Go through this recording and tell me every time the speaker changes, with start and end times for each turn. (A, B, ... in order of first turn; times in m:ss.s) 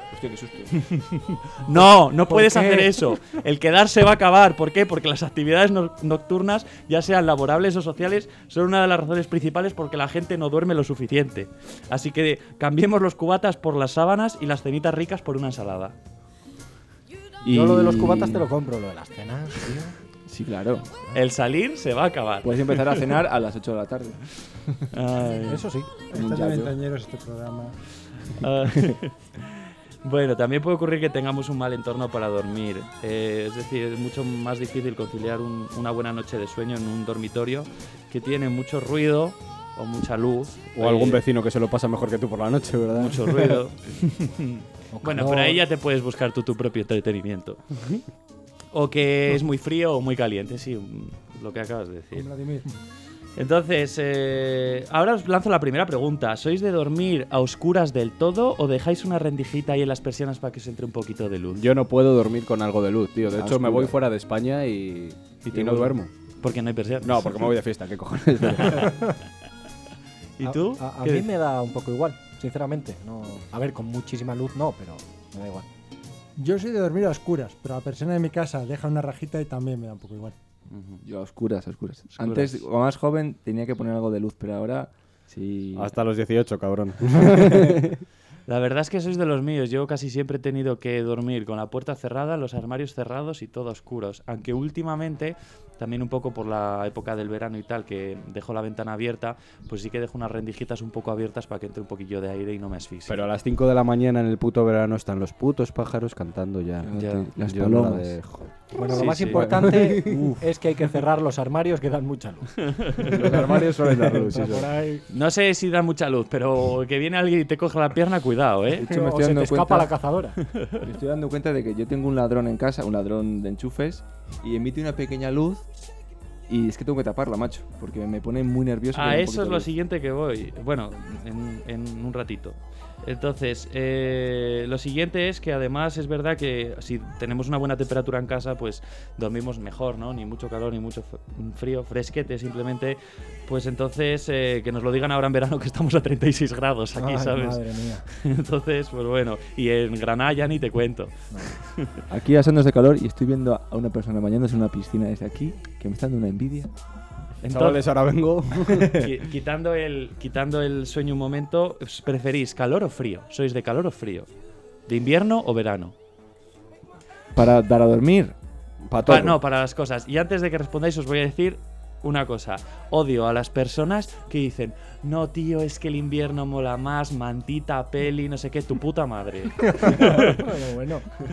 0:00.1-0:00.7 A
0:00.7-0:16.0 B
0:02.3-0:02.9 C
0:17.4-0:18.5 A
0:17.4-0:20.0 C
0:20.3-0:20.9 A
0:21.1-0:23.0 B
0:22.4-0:24.3 A
0:24.9-0:25.7 B
0:25.4-0:25.9 C
0:26.1-0:27.8 D
0:26.1-0:26.7 A
0:28.3-0:41.2 B
0:28.6-0:28.9 A
0:40.8-0:43.6 E
0:42.9-0:48.0 B
0:44.9-0:45.6 C
0:48.7-0:52.3 B
0:52.1-0:52.7 D
0:53.4-1:01.7 B
1:01.6-1:06.1 E
1:03.4-1:03.9 C
1:05.5-1:07.5 B
1:07.0-1:09.0 E
1:08.6-1:08.8 B
1:10.4-1:11.3 B
1:10.4-1:15.7 C
1:16.4-1:20.4 D
1:20.7-1:21.0 B
1:21.0-1:25.9 A
1:22.2-1:22.6 B
1:25.8-1:28.0 E
1:28.5-1:43.2 B
1:43.1-1:50.3 E
1:46.8-1:48.2 A
1:47.0-1:47.3 B
1:48.8-1:53.4 C
1:48.9-1:50.1 B
1:52.7-1:53.2 B
1:53.1-1:54.7 E
1:54.0-1:55.0 C
1:55.1-1:58.9 B
1:58.7-1:59.9 A
1:58.8-2:00.4 C
2:00.5-2:00.8 B
2:00.8-2:05.6 A
2:06.5-2:09.7 A
2:08.9-2:32.0 B
2:27.0-2:28.1 C
2:32.1-2:36.7 A
2:37.4-2:37.8 B
2:37.5-2:39.2 E
2:38.9-2:44.3 B
2:44.9-2:46.0 B
2:47.4-2:48.4 A
2:48.9-2:49.4 E
2:49.1-3:00.6 B
2:59.7-3:01.1 C